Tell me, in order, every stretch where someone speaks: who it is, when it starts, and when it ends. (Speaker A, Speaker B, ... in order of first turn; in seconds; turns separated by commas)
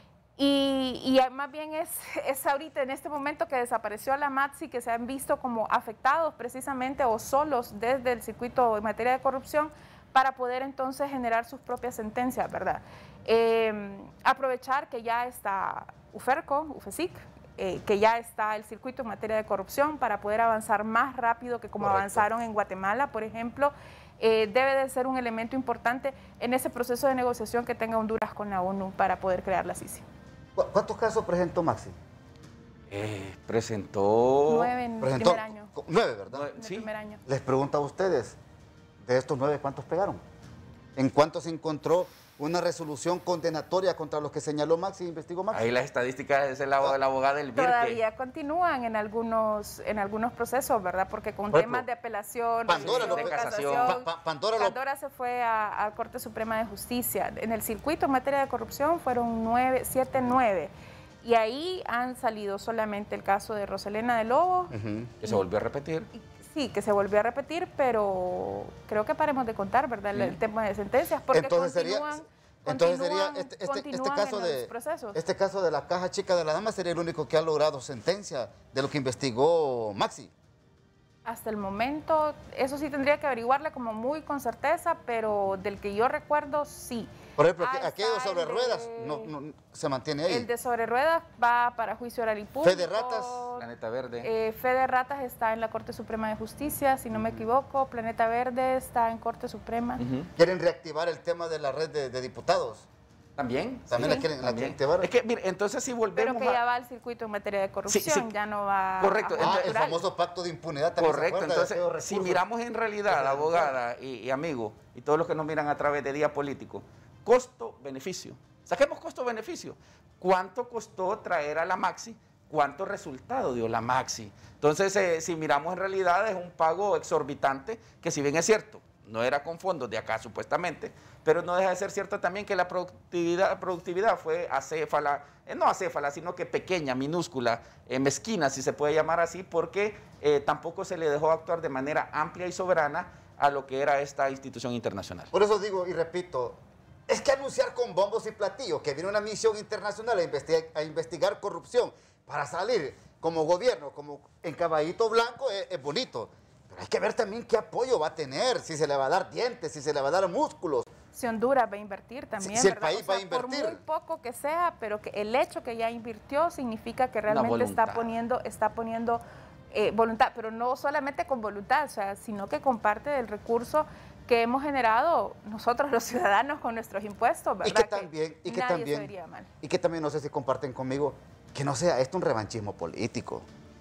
Speaker A: 0.4-30.1, Speaker B: 21.8-22.2, Speaker B: 30.6-31.9, Speaker C: 32.9-34.7, Speaker A: 34.5-35.7, Speaker B: 35.0-36.5, Speaker C: 36.3-36.9, Speaker A: 36.6-37.2, Speaker B: 37.2-38.4, Speaker B: 39.0-40.2, Speaker B: 41.0-45.7, Speaker C: 45.5-48.0, Speaker A: 47.5-60.7, Speaker B: 51.5-51.8, Speaker B: 52.7-54.8, Speaker C: 52.7-54.0, Speaker A: 61.2-65.4, Speaker B: 64.7-65.1, Speaker C: 65.2-66.1, Speaker A: 66.1-75.2, Speaker C: 70.1-70.4, Speaker B: 71.3-80.3, Speaker A: 81.2-89.3, Speaker B: 87.4-90.5, Speaker A: 90.3-93.6, Speaker B: 92.6-93.5, Speaker C: 93.6-94.3, Speaker A: 94.2-100.0, Speaker B: 97.1-97.4, Speaker C: 100.0-100.3, Speaker B: 100.3-102.9, Speaker C: 103.4-106.6, Speaker B: 103.9-105.1, Speaker A: 104.0-104.2, Speaker A: 106.2-110.0, Speaker C: 107.9-108.3, Speaker C: 109.0-109.8, Speaker B: 109.4-112.4, Speaker C: 111.0-145.3, Speaker B: 113.1-113.8, Speaker B: 145.3-160.9, Speaker A: 161.1-179.5, Speaker B: 162.4-163.8, Speaker C: 167.3-168.1, Speaker B: 177.6-179.1, Speaker B: 179.6-183.5